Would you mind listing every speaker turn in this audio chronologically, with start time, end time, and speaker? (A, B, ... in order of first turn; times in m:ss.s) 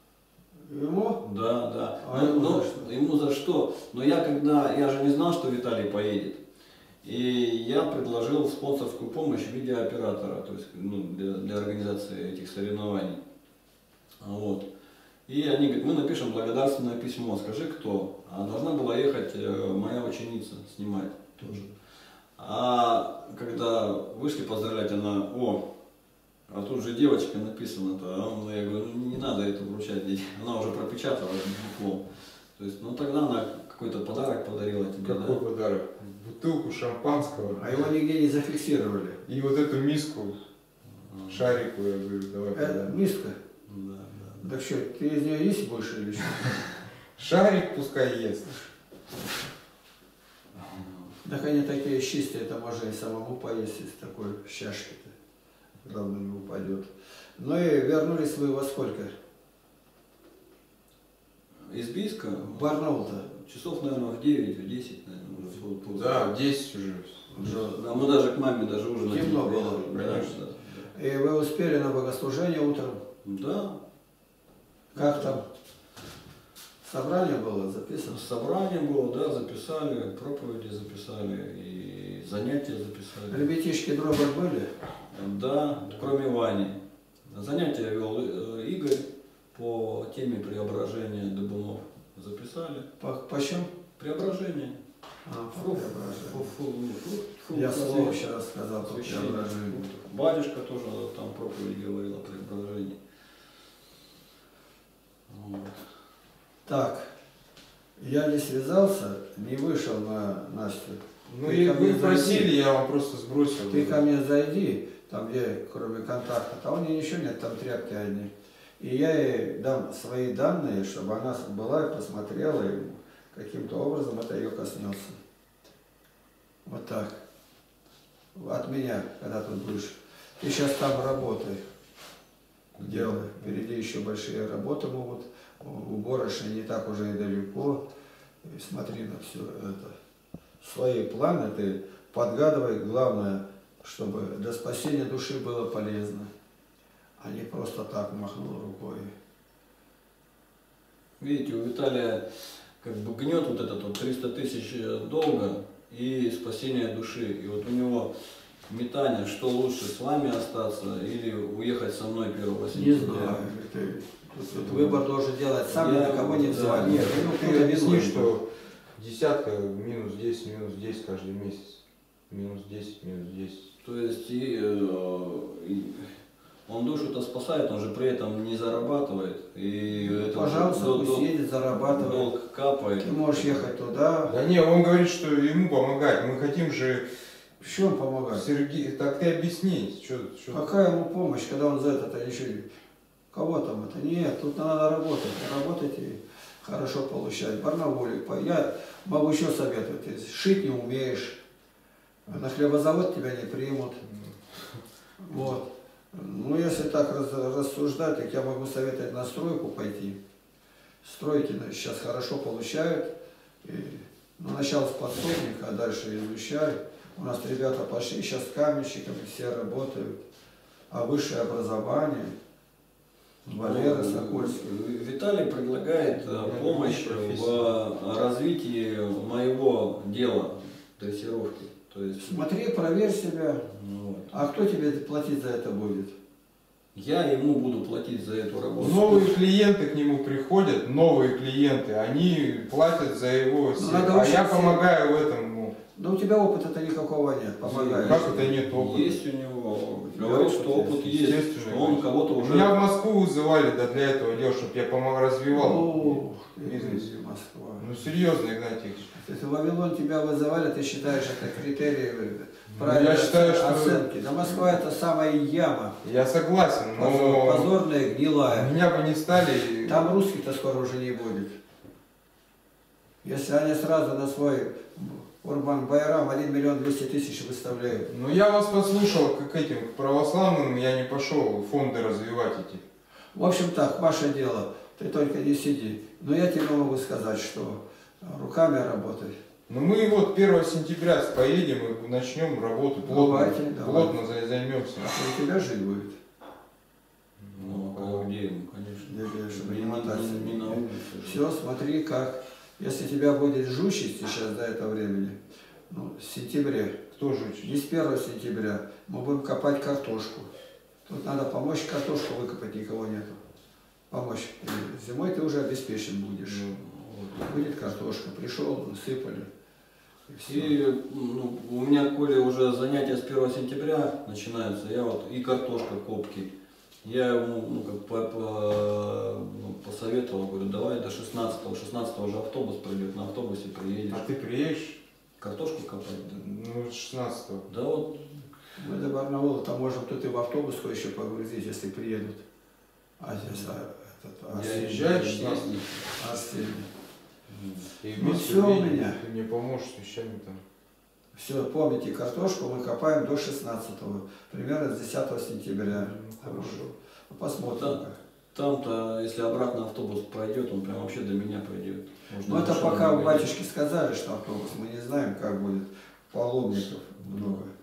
0:00.7-0:01.2 A
0:01.2-0:06.4 B
0:02.0-0:02.9 A
0:07.0-0:13.2 B
0:14.2-0:14.7 B
0:15.3-0:21.7 B
0:22.4-0:25.6 B
0:26.5-0:35.4 B
0:35.0-0:37.9 C
0:37.6-0:39.2 A
0:39.2-0:40.4 C
0:40.9-0:41.5 B
0:41.3-0:42.9 C
0:42.6-0:43.4 A
0:43.7-0:44.5 B
0:44.4-0:46.6 A
0:47.2-0:48.6 C
0:50.6-0:51.1 B
0:51.2-0:55.1 A
0:55.8-0:59.1 A
1:01.7-1:06.3 B
1:02.4-1:03.2 A
1:06.0-1:07.2 C
1:07.3-1:07.8 A
1:07.4-1:10.9 B
1:09.1-1:10.2 A
1:10.0-1:10.3 C
1:10.9-1:13.0 A
1:13.2-1:13.8 B
1:14.9-1:15.4 A
1:15.0-1:15.4 B
1:16.8-1:18.2 A
1:18.1-1:23.5 B
1:23.3-1:24.7 A
1:25.1-1:26.8 B
1:27.3-1:32.9 B
1:33.0-1:33.7 A
1:34.0-1:34.8 B
1:35.3-1:36.5 A
1:35.5-1:38.2 B
1:37.5-1:39.8 A
1:38.8-1:43.0 B
1:45.3-1:45.8 B
1:46.7-1:47.1 A
1:48.0-1:52.5 A
1:51.3-1:54.0 C
1:53.7-2:05.2 A
2:06.6-2:07.2 A
2:08.4-2:11.6 A
2:12.8-2:17.8 A
2:12.8-2:13.5 C
2:18.4-2:20.0 A
2:20.6-2:26.3 A
2:27.2-2:29.1 A
2:31.2-2:38.1 B
2:38.7-2:43.4 B
2:42.7-2:48.3 A
2:44.6-2:45.0 B
2:45.7-2:47.2 B
2:46.7-2:53.7 C
2:53.8-2:56.2 B
2:56.7-3:03.6 B
3:00.1-3:02.3 A
3:03.0-3:04.3 A
3:04.3-3:07.1 C
3:07.6-3:08.4 A
3:08.3-3:10.6 C
3:10.5-3:12.7 A
3:13.3-3:21.4 A
3:22.3-3:24.0 A
3:24.1-3:24.8 C
3:25.2-3:30.2 A
3:31.0-3:33.1 A
3:33.6-3:40.2 A
3:40.9-3:42.3 A
3:43.5-3:44.7 A
3:43.5-3:52.4 B
3:46.2-3:47.7 C
3:52.2-3:53.6 A
3:53.7-3:54.3 B
3:54.3-3:56.1 A
3:56.9-3:59.4 B
3:58.8-4:05.8 C
4:03.8-4:04.8 A
4:06.0-4:08.4 A
4:07.6-4:12.8 B
4:08.0-4:09.2 C
4:10.1-4:11.1 A
4:11.0-4:17.1 C
4:15.5-4:17.9 A
4:17.8-4:19.2 C
4:19.2-4:26.0 A
4:22.7-4:24.1 C
4:26.0-4:27.7 C
4:27.0-4:28.7 A
4:28.5-4:30.2 C
4:29.9-4:31.6 A
4:33.2-4:38.1 A
4:38.1-4:42.8 C
4:43.4-4:49.4 A
4:49.7-4:55.1 C
4:53.0-4:54.2 A
4:55.0-4:56.2 A
4:57.4-4:58.3 C
4:57.6-5:01.3 B
4:59.0-5:05.4 A
5:05.9-5:07.0 A
5:07.1-5:07.7 C
5:07.6-5:10.5 A
5:11.1-5:13.4 A
5:14.1-5:16.7 A
5:16.5-5:18.0 B
5:17.5-5:19.5 A
5:20.3-5:20.7 A
5:20.5-5:26.5 B
5:27.0-5:34.3 B
5:34.1-5:35.0 C
5:35.4-5:36.4 B
5:36.3-5:37.7 C
5:37.7-5:38.5 B
5:38.8-5:42.4 A
5:43.2-5:45.2 A
5:44.5-5:46.1 B
5:44.7-5:45.8 C
5:46.2-5:46.9 A
5:47.5-5:47.9 B
5:47.9-5:50.6 C
5:48.2-5:49.2 A
5:51.4-5:58.2 A
5:55.9-5:56.9 C
5:57.8-5:58.0 B
5:58.5-6:03.5 B
6:02.4-6:07.7 A